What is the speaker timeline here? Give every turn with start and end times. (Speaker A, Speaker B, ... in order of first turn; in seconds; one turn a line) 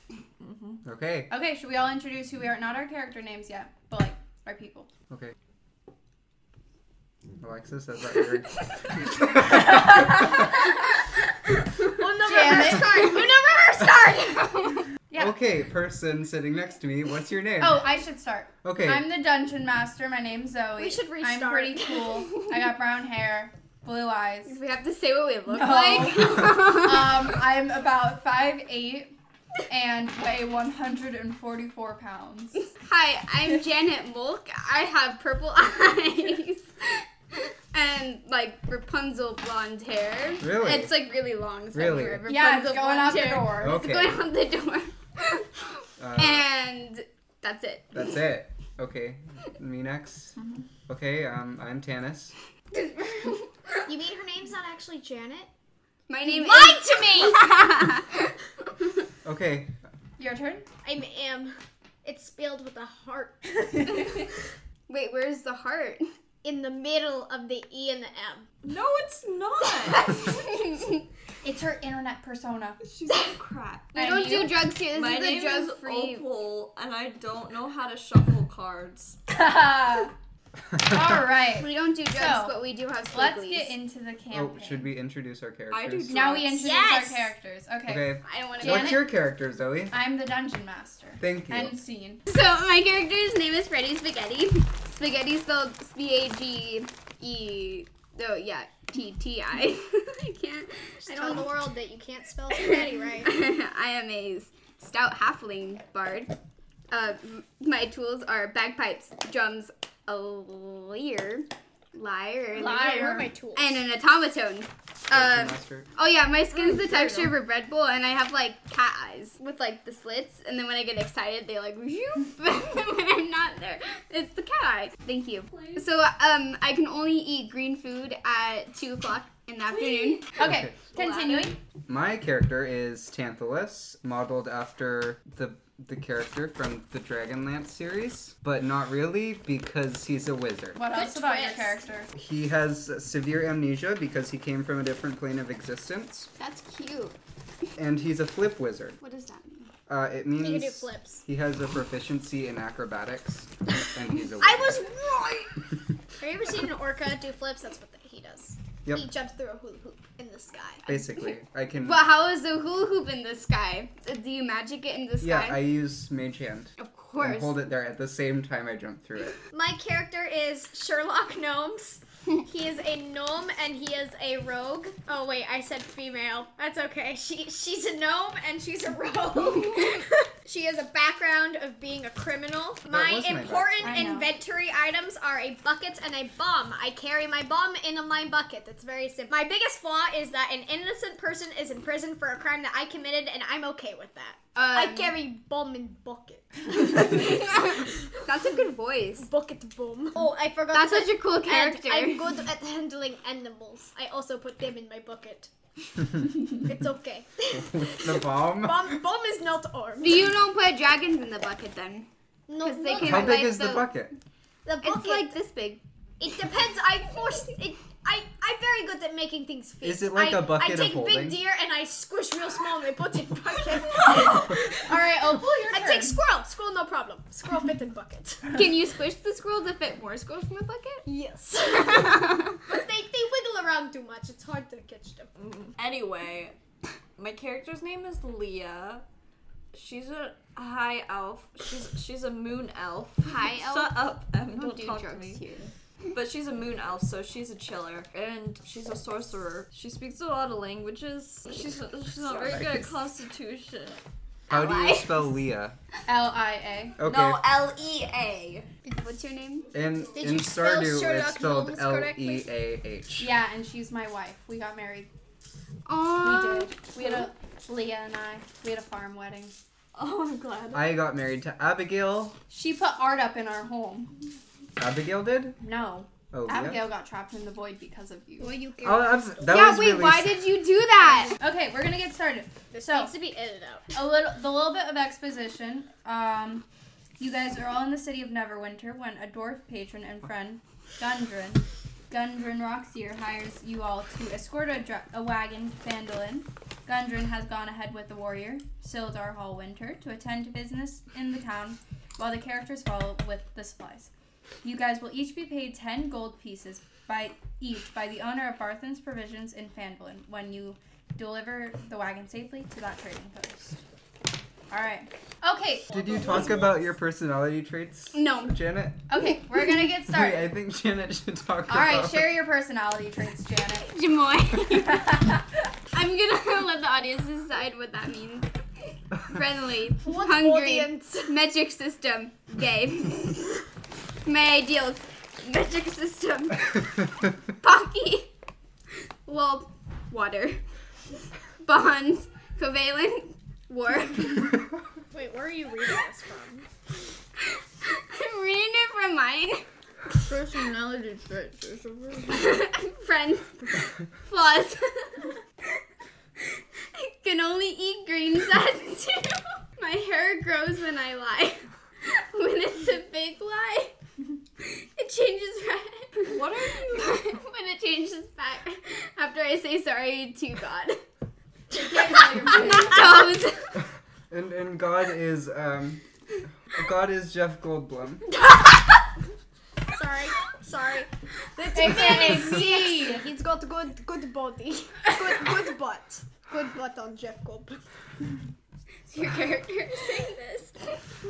Speaker A: 0.4-0.8
Speaker B: 0.8-1.3
Speaker C: 1.3-4.9
Speaker B: 5.1-5.3
Speaker B: 7.4-10.3
Speaker D: 11.9-14.5
Speaker C: 12.2-13.2
Speaker E: 12.4-12.9
Speaker E: 14.3-14.8
Speaker C: 15.1-15.4
Speaker B: 15.2-17.9
Speaker C: 17.6-24.6
Speaker B: 18.6-19.1
Speaker D: 20.8-22.1
Speaker E: 24.4-27.3
Speaker C: 25.5-29.1
Speaker C: 29.7-32.7
Speaker E: 32.8-45.6
Speaker B: 40.4-40.9
Speaker B: 41.7-42.3
Speaker C: 42.3-43.8
Speaker B: 43.6-44.2
Speaker B: 46.0-46.5
Speaker E: 46.2-48.1
Speaker B: 47.9-52.4
Speaker E: 52.7-53.8
Speaker D: 53.9-55.5
Speaker E: 56.1-58.9
Speaker D: 56.2-57.5
Speaker B: 59.2-59.7
Speaker C: 60.2-60.7
Speaker D: 60.8-63.7
Speaker C: 63.7-64.2
Speaker E: 64.9-66.0
Speaker D: 66.4-68.5
Speaker A: 68.6-70.2
Speaker E: 70.0-71.0
Speaker C: 71.4-72.8
Speaker A: 72.8-73.9
Speaker E: 73.1-73.3
Speaker E: 73.9-76.3
Speaker C: 74.0-74.7
Speaker A: 74.9-79.2
Speaker C: 79.3-80.1
Speaker B: 80.7-81.2
Speaker C: 80.8-82.6
Speaker E: 81.6-83.7
Speaker C: 83.1-84.9
Speaker B: 84.3-86.2
Speaker A: 85.7-86.8
Speaker C: 86.1-89.1
Speaker D: 86.6-87.3
Speaker B: 87.9-89.9
Speaker E: 88.2-89.0
Speaker C: 89.9-92.2
Speaker B: 91.2-91.8
Speaker E: 92.3-101.6
Speaker D: 101.0-103.4
Speaker E: 102.5-106.4
Speaker E: 106.9-130.3
Speaker D: 112.5-113.8
Speaker C: 112.6-113.0
Speaker B: 115.1-115.9
Speaker A: 116.5-117.4
Speaker A: 125.5-125.8
Speaker C: 130.4-131.6
Speaker B: 130.4-130.8
Speaker A: 131.0-131.5
Speaker B: 131.9-140.8
Speaker C: 140.8-142.1
Speaker D: 140.9-141.8
Speaker B: 142.2-146.3
Speaker E: 146.4-147.2
Speaker B: 147.8-149.0
Speaker E: 149.0-149.7
Speaker B: 149.9-154.7
Speaker D: 150.4-151.2
Speaker D: 154.4-155.7
Speaker D: 156.2-160.8
Speaker B: 160.9-162.0
Speaker E: 161.8-165.6
Speaker B: 165.2-169.4
Speaker E: 166.8-167.6
Speaker D: 169.5-198.1
Speaker E: 179.4-179.9
Speaker B: 182.9-183.9
Speaker C: 183.8-184.3
Speaker E: 194.6-195.2
Speaker E: 196.8-199.3
Speaker D: 199.2-205.5
Speaker E: 200.7-202.4
Speaker D: 206.5-210.3
Speaker B: 207.5-209.0
Speaker E: 210.0-212.1
Speaker D: 212.5-213.5
Speaker E: 212.6-213.9
Speaker B: 213.0-214.1
Speaker D: 214.7-215.4
Speaker E: 214.8-215.8
Speaker D: 216.2-228.6
Speaker B: 219.8-221.4
Speaker A: 223.9-224.5
Speaker C: 224.8-226.2
Speaker E: 228.5-231.1
Speaker D: 231.1-235.3
Speaker E: 231.7-232.6
Speaker A: 235.4-236.6
Speaker A: 237.2-239.1
Speaker A: 239.7-245.4
Speaker E: 243.2-244.0
Speaker E: 244.6-245.7
Speaker A: 246.1-254.0
Speaker B: 252.2-252.9
Speaker E: 254.5-255.3
Speaker B: 254.5-255.8
Speaker C: 256.1-257.0
Speaker B: 257.0-257.4
Speaker A: 257.0-258.7
Speaker E: 258.9-259.7
Speaker B: 259.7-263.3
Speaker D: 260.1-262.5
Speaker C: 263.2-265.1
Speaker E: 265.9-266.8
Speaker C: 266.2-269.6
Speaker A: 269.9-270.9
Speaker B: 270.7-272.4
Speaker C: 272.5-274.2
Speaker B: 274.8-275.6
Speaker C: 275.6-278.6
Speaker B: 276.3-276.9
Speaker D: 278.4-279.2
Speaker B: 278.8-280.4
Speaker E: 279.5-281.4
Speaker C: 281.3-283.1
Speaker D: 282.7-283.9
Speaker C: 283.9-286.6
Speaker C: 287.2-304.1
Speaker C: 304.6-313.8
Speaker C: 314.7-315.9
Speaker D: 315.9-316.8
Speaker B: 315.9-319.1
Speaker E: 318.1-318.6
Speaker C: 319.1-320.5
Speaker B: 320.1-322.3
Speaker C: 321.7-323.9
Speaker E: 323.8-325.2
Speaker C: 324.7-325.6
Speaker E: 325.9-328.5
Speaker E: 329.2-333.6
Speaker D: 330.0-331.4
Speaker E: 334.2-338.3
Speaker E: 339.3-340.6
Speaker E: 341.6-344.6
Speaker D: 345.1-346.7
Speaker E: 347.5-349.7
Speaker A: 350.2-352.6
Speaker E: 352.3-355.3
Speaker E: 356.4-363.9
Speaker E: 364.6-371.0
Speaker A: 366.3-367.4
Speaker C: 371.7-373.2
Speaker E: 372.1-373.8
Speaker B: 374.3-376.0
Speaker B: 376.6-378.3
Speaker D: 379.9-387.8
Speaker C: 381.7-383.2
Speaker E: 389.1-391.0